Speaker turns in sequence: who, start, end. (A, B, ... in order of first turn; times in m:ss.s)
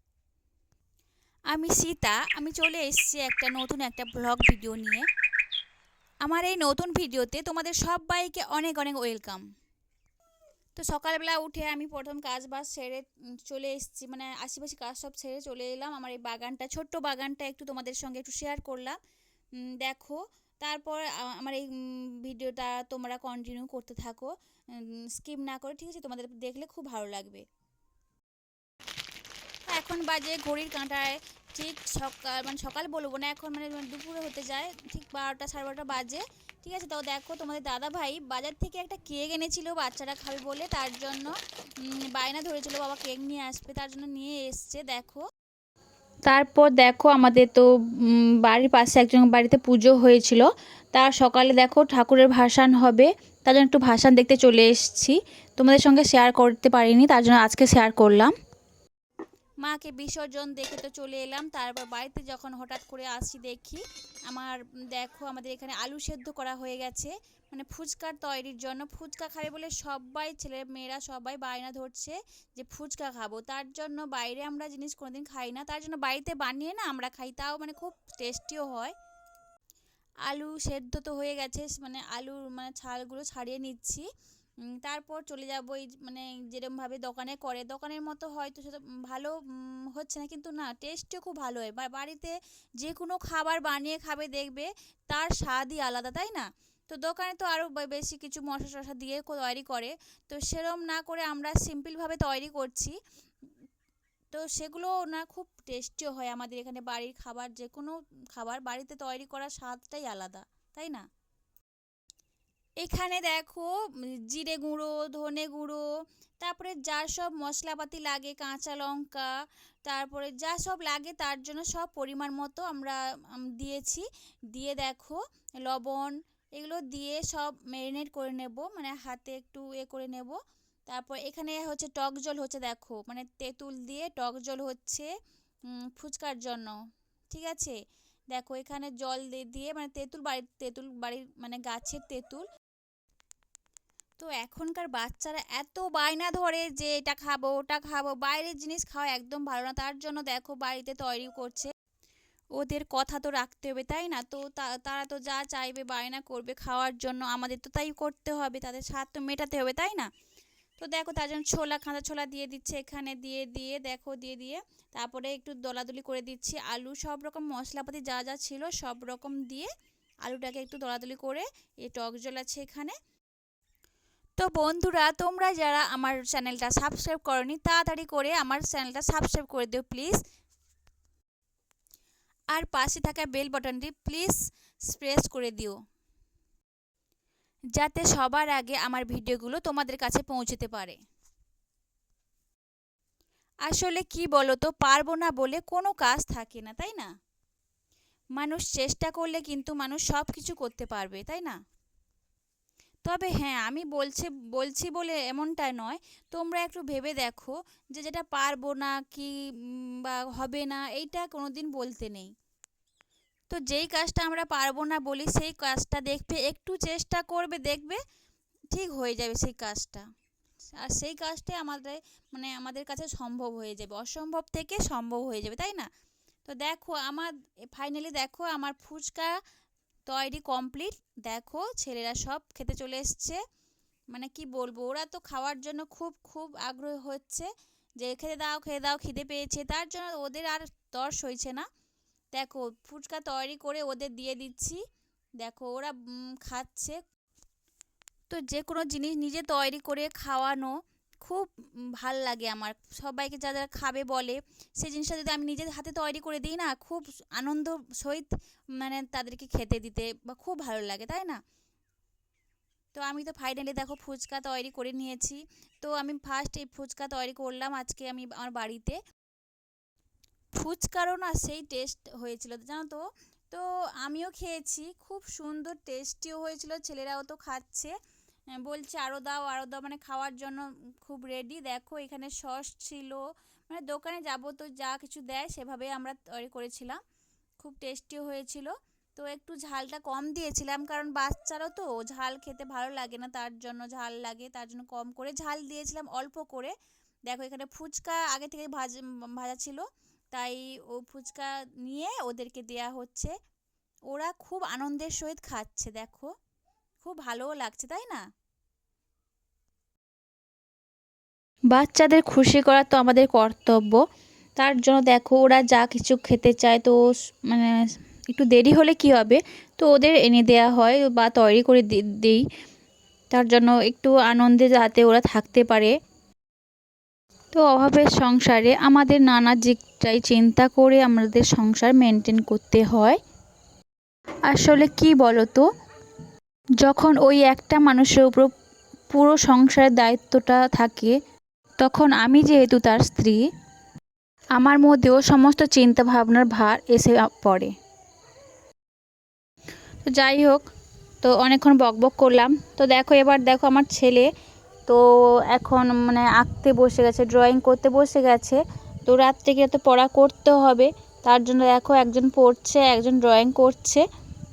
0:01.5-0:05.0 A
0:06.2-0:09.4 A
0:10.8-0:19.0 A
0:19.6-0:27.4 A
0:29.7-0:45.2 A
0:46.3-0:58.3 A
0:59.6-1:18.9 A
1:20.2-1:24.1 A
1:24.7-1:42.9 A
1:44.3-1:51.0 A
1:52.8-1:55.8 A
1:56.4-1:59.3 A
1:59.8-2:15.1 A
2:15.7-2:16.8 A
2:17.3-2:17.8 A
2:18.3-2:22.4 A
2:24.2-2:31.7 A
2:32.6-2:40.1 A
2:40.8-2:49.7 A
2:50.2-2:53.0 A
2:54.4-3:00.2 A
3:02.5-3:05.8 A
3:07.8-3:11.0 A
3:13.7-3:17.1 A
3:18.4-3:21.6 A
3:23.0-3:32.3 A
3:33.5-3:38.0 A
3:38.7-3:40.0 A
3:40.7-3:45.9 A
3:46.4-3:49.3 A
3:50.1-3:53.4 A
3:54.1-4:01.7 A
4:02.3-4:04.8 A
4:05.4-4:07.0 A
4:08.3-4:21.4 A
4:22.9-4:29.0 A
4:30.6-4:37.9 A
4:38.6-4:47.0 A
4:47.6-4:56.7 A
4:57.3-5:03.3 A
5:04.1-5:06.3 A
5:07.0-5:08.2 A
5:11.7-5:14.0 A
5:14.6-5:22.4 A
5:23.3-5:25.9 A
5:27.5-5:33.2 A
5:34.5-5:35.6 A
5:36.8-5:38.5 A
5:39.1-5:41.1 A
5:41.8-5:43.4 A
5:44.5-5:47.7 A
5:50.0-5:50.6 A
5:51.2-5:54.3 A
5:54.9-6:04.0 A